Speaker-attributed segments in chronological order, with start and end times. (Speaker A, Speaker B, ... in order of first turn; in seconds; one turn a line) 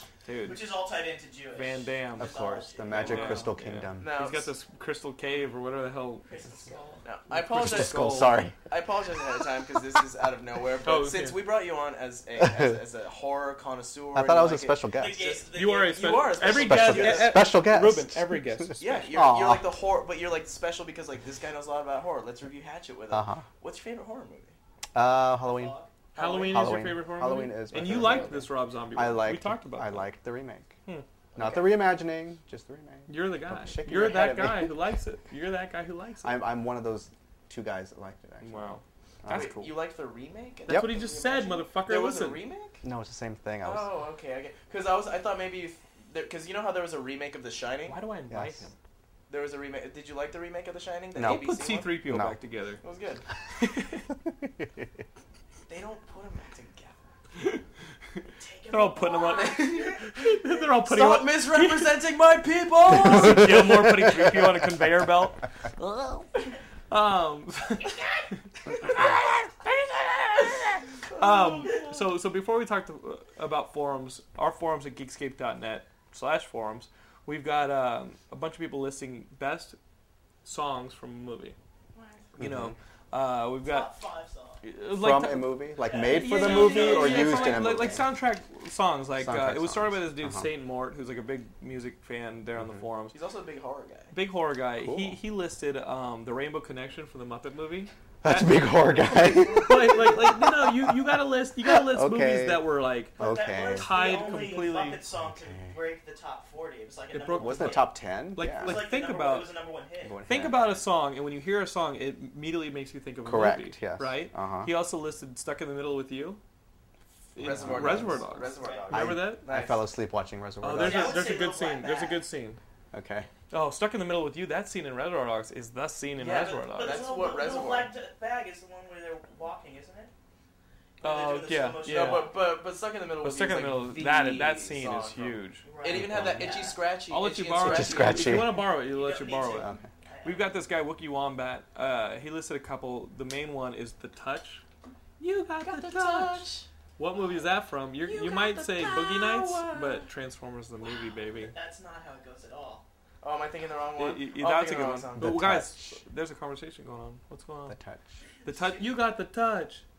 Speaker A: 0.2-0.6
Speaker B: 0.4-3.4
Speaker A: 1.5-2.3
Speaker C: 2.2-4.2
Speaker A: 2.9-6.3
Speaker D: 2.9-3.4
Speaker D: 4.0-4.5
Speaker B: 6.2-7.0
Speaker D: 7.0-17.4
Speaker A: 7.3-8.5
Speaker C: 7.3-8.6
Speaker A: 10.8-11.4
Speaker C: 12.4-12.8
Speaker C: 14.1-15.2
Speaker B: 14.9-16.3
Speaker A: 15.5-18.8
Speaker C: 16.4-19.7
Speaker D: 18.8-24.6
Speaker C: 23.1-23.4
Speaker C: 24.9-25.8
Speaker B: 25.5-25.9
Speaker A: 26.1-30.1
Speaker D: 26.1-26.8
Speaker C: 26.4-30.8
Speaker C: 31.3-34.7
Speaker A: 33.1-36.4
Speaker D: 34.0-34.5
Speaker C: 36.2-39.5
Speaker A: 38.4-39.7
Speaker D: 39.3-42.8
Speaker C: 40.7-40.9
Speaker A: 40.7-42.4
Speaker C: 42.8-43.9
Speaker D: 43.6-48.0
Speaker A: 47.9-48.7
Speaker C: 48.3-48.6
Speaker D: 49.3-52.0
Speaker C: 51.1-52.4
Speaker A: 51.2-52.8
Speaker D: 52.8-53.2
Speaker A: 53.5-54.1
Speaker C: 54.4-54.9
Speaker D: 55.7-57.0
Speaker A: 57.4-57.6
Speaker A: 58.1-62.0
Speaker B: 58.4-60.7
Speaker D: 59.2-60.0
Speaker D: 60.8-63.8
Speaker A: 62.9-79.8
Speaker C: 63.1-64.4
Speaker D: 71.2-71.8
Speaker A: 80.4-81.5
Speaker B: 82.0-82.3
Speaker A: 82.4-83.9
Speaker C: 82.4-82.7
Speaker B: 83.6-84.6
Speaker A: 84.6-93.2
Speaker C: 84.8-88.1
Speaker B: 85.8-87.6
Speaker D: 86.7-87.2
Speaker C: 89.2-90.5
Speaker C: 92.6-92.8
Speaker D: 93.1-94.1
Speaker A: 94.1-105.0
Speaker C: 94.8-95.2
Speaker C: 98.2-103.9
Speaker B: 103.2-107.9
Speaker C: 105.2-105.8
Speaker A: 107.1-109.5
Speaker C: 107.4-108.9
Speaker B: 108.6-110.2
Speaker C: 110.0-110.7
Speaker A: 110.3-116.4
Speaker C: 113.2-114.7
Speaker A: 117.3-119.8
Speaker C: 117.4-118.1
Speaker D: 117.4-119.0
Speaker B: 117.9-118.9
Speaker C: 118.9-121.3
Speaker A: 120.6-122.6
Speaker B: 120.7-122.2
Speaker C: 122.9-123.3
Speaker A: 123.5-127.1
Speaker D: 126.2-127.9
Speaker B: 126.3-130.1
Speaker B: 131.0-132.4
Speaker A: 131.0-132.3
Speaker D: 131.8-138.5
Speaker A: 133.2-135.6
Speaker B: 135.6-136.8
Speaker C: 135.9-136.6
Speaker A: 137.1-139.7
Speaker C: 137.6-138.7
Speaker B: 138.9-140.5
Speaker C: 139.5-139.8
Speaker A: 140.2-144.6
Speaker A: 145.2-151.5
Speaker D: 145.6-146.5
Speaker B: 146.0-146.6
Speaker B: 147.2-147.4
Speaker D: 148.1-150.0
Speaker B: 149.5-149.8
Speaker B: 150.9-152.8
Speaker D: 153.2-155.4
Speaker A: 154.0-157.8
Speaker C: 155.2-156.0
Speaker C: 157.7-158.1
Speaker A: 158.4-159.8
Speaker B: 158.4-158.8